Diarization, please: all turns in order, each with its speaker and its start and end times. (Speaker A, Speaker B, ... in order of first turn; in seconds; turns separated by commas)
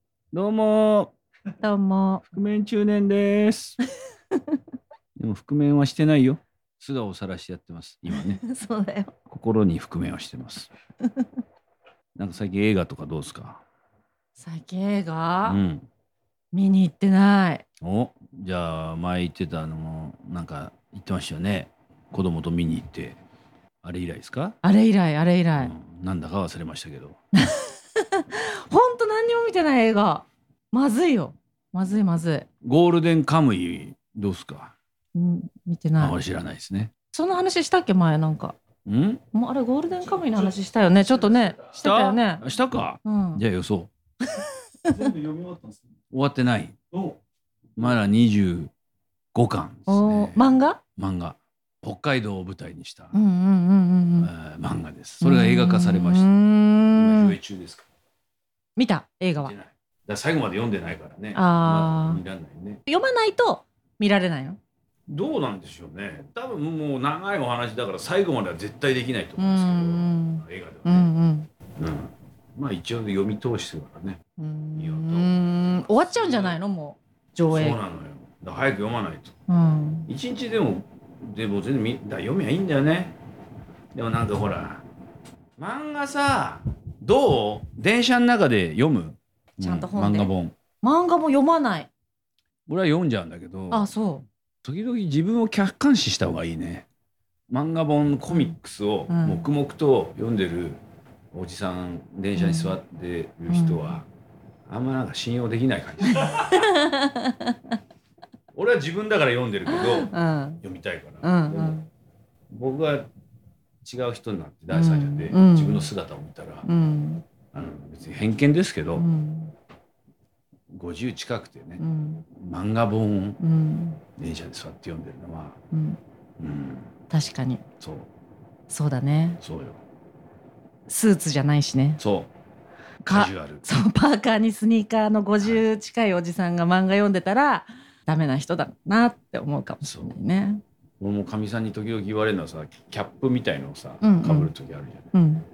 Speaker A: 0.3-1.1, Speaker B: 1.6-2.2, Speaker A: 2.3-3.8, Speaker A: 5.2-8.4, Speaker B: 8.2-9.2, Speaker A: 9.3-10.7, Speaker A: 12.2-13.6, Speaker B: 14.4-15.6, Speaker A: 15.4-15.9, Speaker B: 16.5-17.6, Speaker A: 17.8-23.2, Speaker A: 23.8-24.6, Speaker B: 24.6-25.7, Speaker A: 25.6-27.2, Speaker B: 27.3-32.5, Speaker A: 32.6-34.8, Speaker B: 35.1-36.2, Speaker A: 36.0-36.9, Speaker B: 37.1-38.6, Speaker A: 38.9-39.2, Speaker B: 39.3-42.4, Speaker C: 39.9-41.9, Speaker A: 41.8-43.9, Speaker B: 43.0-43.4, Speaker B: 44.2-45.0, Speaker C: 44.9-46.0, Speaker A: 46.1-46.8, Speaker C: 46.9-47.2, Speaker A: 47.8-48.7, Speaker A: 49.3-53.1, Speaker B: 49.9-50.8, Speaker B: 53.1-54.3, Speaker A: 54.2-56.3, Speaker B: 55.2-57.4, Speaker A: 56.9-57.9, Speaker B: 58.8-59.5, Speaker A: 59.4-62.8, Speaker B: 61.4-62.2, Speaker B: 62.9-64.6, Speaker A: 65.1-71.1, Speaker B: 69.4-71.5, Speaker A: 71.8-74.2, Speaker B: 74.4-77.8, Speaker A: 74.8-76.6, Speaker A: 77.5-79.3, Speaker B: 79.5-80.1, Speaker A: 80.1-83.2, Speaker A: 83.9-84.8, Speaker A: 85.6-90.6, Speaker B: 89.6-90.3, Speaker B: 90.8-91.9, Speaker A: 92.7-93.9, Speaker B: 93.7-94.3, Speaker A: 94.6-96.9, Speaker A: 97.5-100.8, Speaker B: 98.3-98.6, Speaker B: 99.1-99.5, Speaker A: 101.3-104.1, Speaker B: 102.4-102.8, Speaker B: 103.5-104.0, Speaker A: 104.7-106.7, Speaker B: 106.1-107.6, Speaker A: 108.5-111.8, Speaker B: 109.7-110.6, Speaker B: 111.2-111.9, Speaker A: 112.5-113.1, Speaker A: 113.8-116.7, Speaker B: 114.7-115.9, Speaker B: 116.7-117.2, Speaker A: 117.5-119.1, Speaker B: 119.0-119.5, Speaker A: 120.7-123.4, Speaker B: 121.8-122.3, Speaker B: 123.4-124.0, Speaker A: 124.2-125.6, Speaker B: 125.7-126.0, Speaker A: 126.4-126.9, Speaker B: 127.1-127.6, Speaker A: 127.8-128.1, Speaker B: 128.7-129.4, Speaker A: 129.4-129.8, Speaker B: 130.9-132.0, Speaker A: 132.0-132.3, Speaker A: 133.1-133.7, Speaker B: 133.1-140.6, Speaker A: 139.8-140.2, Speaker A: 141.0-145.1, Speaker B: 144.0-144.5, Speaker B: 145.1-145.4